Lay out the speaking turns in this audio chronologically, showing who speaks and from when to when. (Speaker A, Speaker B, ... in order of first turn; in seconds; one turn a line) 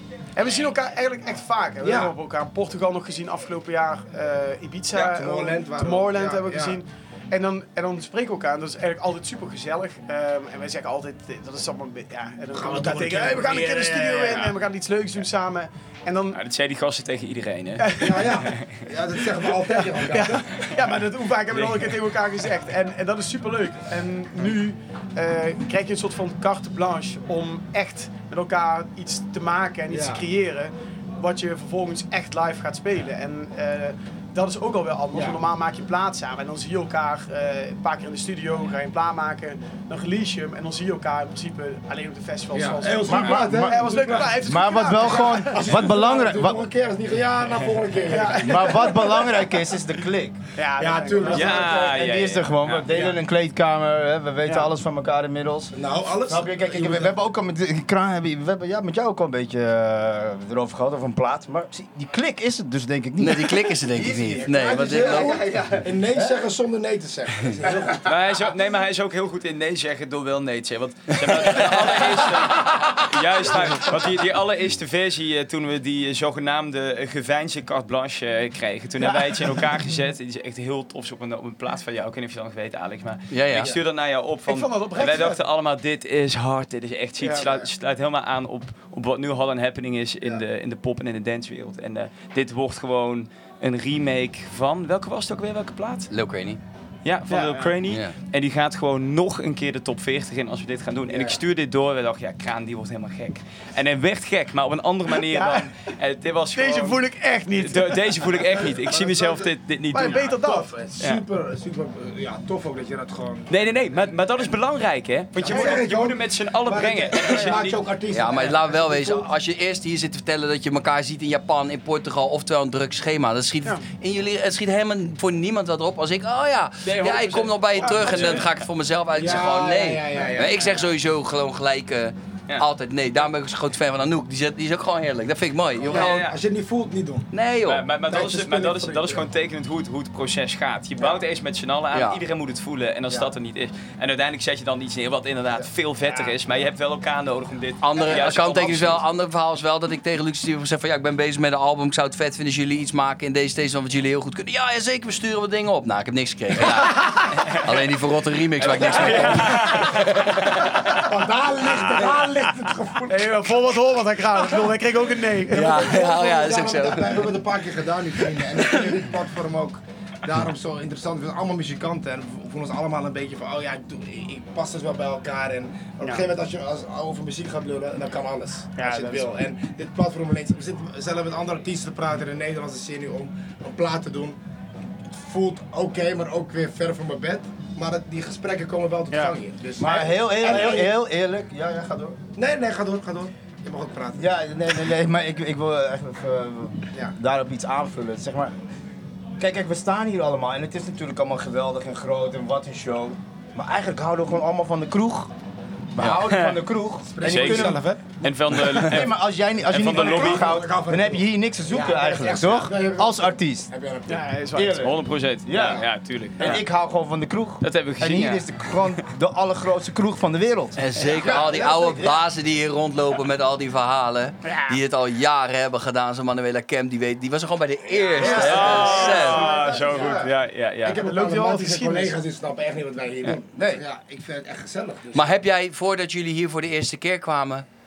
Speaker A: 0.3-16.4
Speaker B: 1.8-2.1
Speaker B: 4.9-6.8
Speaker B: 12.5-14.4
Speaker C: 14.3-14.5
Speaker C: 16.3-18.6
Speaker A: 17.8-18.2
Speaker B: 18.0-20.5
Speaker A: 19.6-45.9
Speaker C: 21.5-22.0
Speaker B: 29.9-30.2
Speaker B: 35.1-35.4
Speaker B: 42.5-48.8
Speaker D: 43.0-46.6
Speaker A: 48.0-49.3
Speaker D: 48.4-50.4
Speaker A: 50.5-51.7
Speaker B: 50.8-51.9
Speaker C: 51.3-52.9
Speaker D: 51.3-66.4
Speaker A: 54.4-54.7
Speaker B: 55.7-57.1
Speaker E: 63.2-65.4
Speaker B: 64.3-68.1
Speaker C: 68.0-96.1
Speaker E: 83.3-83.7
Speaker A: 84.5-85.4
Speaker A: 87.2-87.7
Speaker E: 96.1-96.6
Speaker C: 97.0-110.3
Speaker A: 97.3-97.8
Speaker E: 97.9-98.1
Speaker B: 101.1-101.4
Speaker A: 105.1-105.7
Speaker A: 106.5-108.3
Speaker B: 108.4-113.5
Speaker A: 109.9-110.7
Speaker C: 111.0-111.2
Speaker C: 113.5-117.8
Speaker B: 115.3-119.3
Speaker A: 115.5-115.8
Speaker E: 118.1-136.0
Speaker C: 126.8-128.5
Speaker A: 127.8-128.1
Speaker B: 129.1-130.8
Speaker B: 135.8-137.3
Speaker C: 135.9-136.3
Speaker E: 137.3-137.9
Speaker C: 137.7-149.0
Speaker B: 138.0-139.3
Speaker E: 141.9-142.2
Speaker E: 147.8-160.6
Speaker B: 158.6-163.5
Speaker C: 158.6-160.0
Speaker A: 163.1-165.9
Speaker E: 165.5-167.3
Speaker B: 165.6-184.4
Speaker A: 176.0-176.3
Speaker A: 178.8-179.4
Speaker B: 185.1-190.9
Speaker A: 189.1-189.3
Speaker D: 189.8-192.2
Speaker B: 192.3-194.2
Speaker D: 194.1-198.5
Speaker D: 199.4-205.3
Speaker D: 205.9-207.8
Speaker C: 206.2-206.6
Speaker B: 207.0-208.1
Speaker C: 207.2-210.5
Speaker D: 208.7-213.7
Speaker B: 209.8-214.2
Speaker A: 214.1-214.8
Speaker D: 214.5-215.9
Speaker C: 214.8-216.6
Speaker D: 216.4-222.2
Speaker C: 217.6-218.5
Speaker E: 220.8-229.5
Speaker B: 221.1-221.9
Speaker A: 224.4-224.8
Speaker B: 228.0-235.3
Speaker D: 228.1-229.1
Speaker C: 228.3-231.0
Speaker A: 229.4-230.1
Speaker A: 230.9-232.2
Speaker D: 233.6-233.8
Speaker E: 235.1-237.6